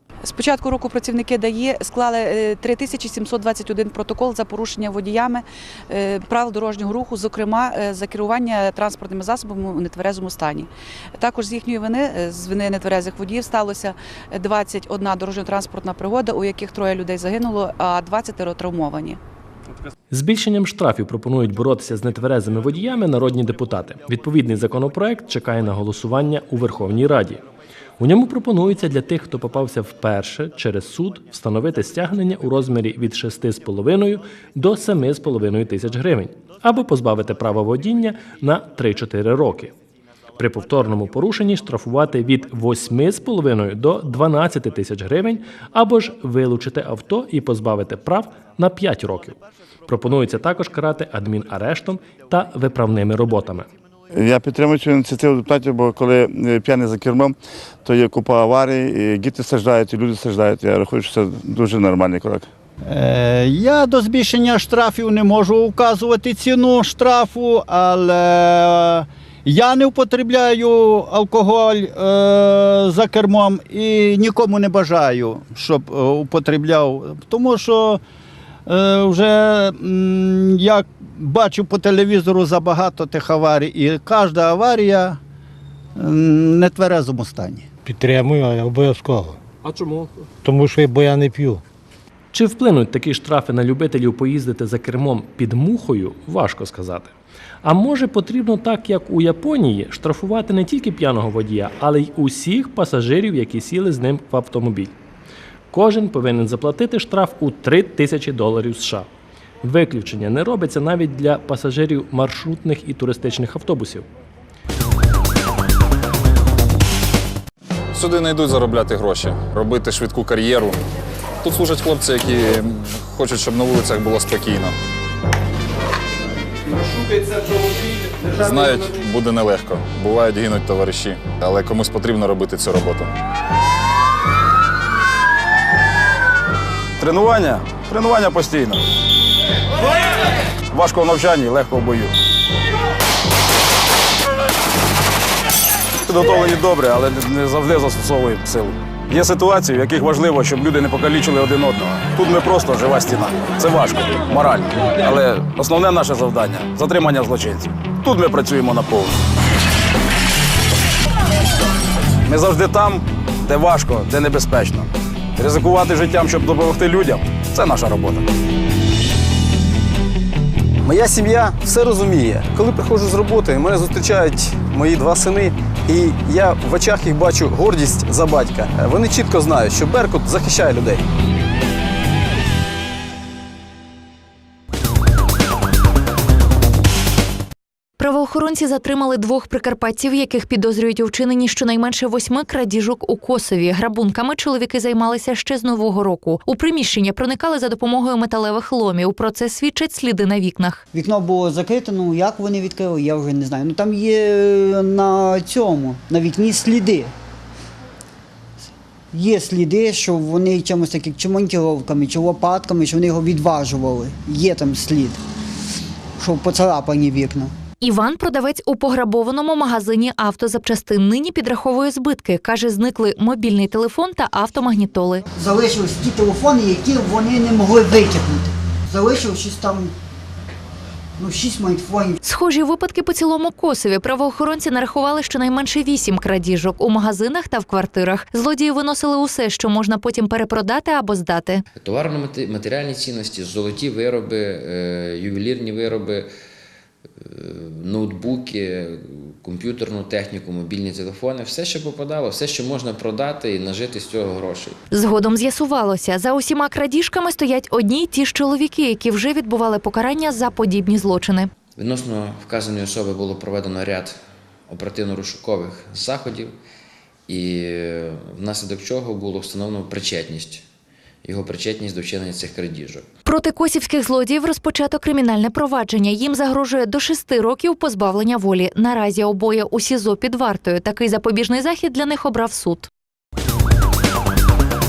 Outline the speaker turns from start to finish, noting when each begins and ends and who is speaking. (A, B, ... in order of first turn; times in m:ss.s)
0:00.2-0:19.2 A
0:20.1-0:27.4 B
0:28.0-0:39.7 B
0:40.4-0:53.7 B
0:54.2-0:57.3 C
0:57.8-1:02.4 C
1:02.9-1:18.0 D
1:18.7-1:25.2 D
1:26.0-1:27.7 D
1:28.0-1:29.3 E
1:30.5-1:31.6 E
1:32.3-1:44.9 B
1:45.7-1:49.1 B
1:49.6-1:54.0 B
1:57.9-2:00.8 F
2:01.4-2:04.8 F
2:08.3-2:13.1 F
2:17.0-2:18.8 G
2:20.7-2:22.1 G
2:26.0-2:39.2 G
2:42.3-2:48.2 G
2:50.8-3:01.0 H
3:08.0-3:20.8 I
3:20.9-3:27.1 J
3:29.1-3:35.2 J
3:36.2-3:37.5 J
3:37.8-3:45.2 I
3:45.3-3:49.9 J
3:51.2-3:52.2 J
3:52.2-4:01.6 I
4:01.8-4:06.3 K
4:07.3-4:14.8 K
4:14.9-4:21.5 I
4:21.8-4:26.5 K
4:27.3-4:30.6 K
4:31.2-4:33.1 K
4:33.2-4:42.9 I